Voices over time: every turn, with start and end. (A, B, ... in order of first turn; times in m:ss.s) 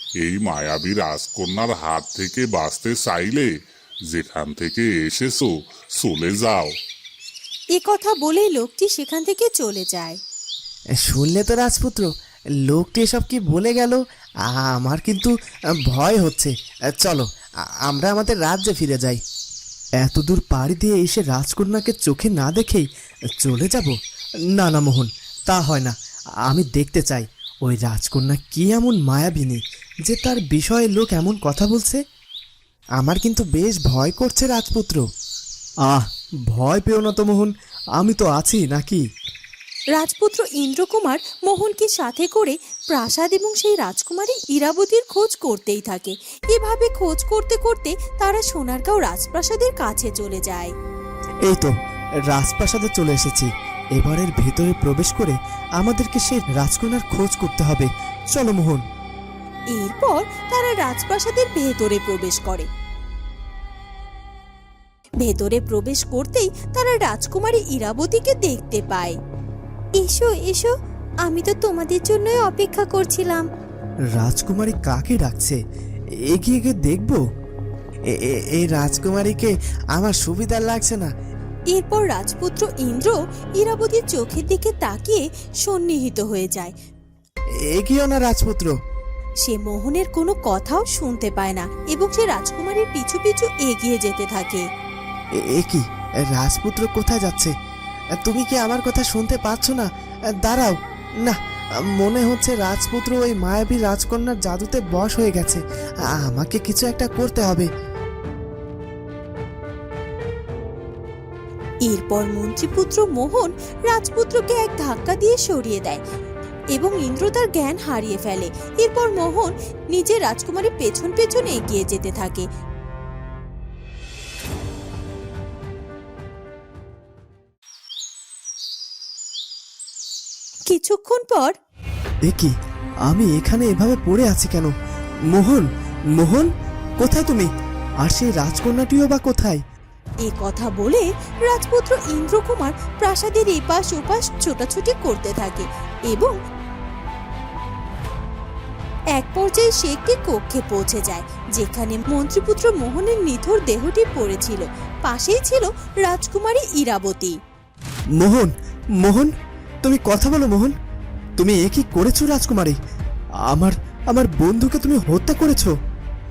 0:00.2-0:03.5 A
0:04.1-0:06.7 A
0:07.8-0:10.2 B
0:11.0-0:12.1 C
0:12.6-0:14.0 C
0:14.5-0:15.3 C
0:15.9-0:17.2 C
0:17.9-0:19.2 C
0:20.0-0:22.8 C
0:23.4-0:23.9 C
0:24.6-0:25.9 C
0:26.5-0:32.0 C
0:33.0-0:35.0 C
0:35.9-0:39.0 C
0:40.0-0:50.7 B
0:51.4-0:51.7 C
0:52.3-0:58.8 C
0:59.7-1:02.7 B
1:05.2-1:09.1 B
1:10.0-1:10.7 B
1:11.3-1:13.4 B
1:14.2-1:15.6 C
1:16.3-1:17.2 C
1:18.2-1:21.1 C
1:21.7-1:26.7 B
1:27.7-1:28.7 C
1:29.4-1:34.6 B
1:35.5-1:37.5 C
1:38.2-1:39.9 C
1:40.4-1:41.4 C
1:42.0-1:45.6 C
1:46.2-1:47.7 C
1:51.8-1:56.0 B
1:56.7-2:02.4 B
2:10.7-2:11.5 B
2:12.3-2:12.5 C
2:13.1-2:14.7 C
2:15.3-2:15.6 C
2:16.2-2:16.5 C
2:17.0-2:17.5 C
2:18.0-2:19.6 C
2:20.2-2:26.3 B
2:29.2-2:37.4 B
2:38.2-2:39.3 C
2:39.8-2:40.7 C
2:41.4-2:42.7 C
2:43.5-2:45.7 C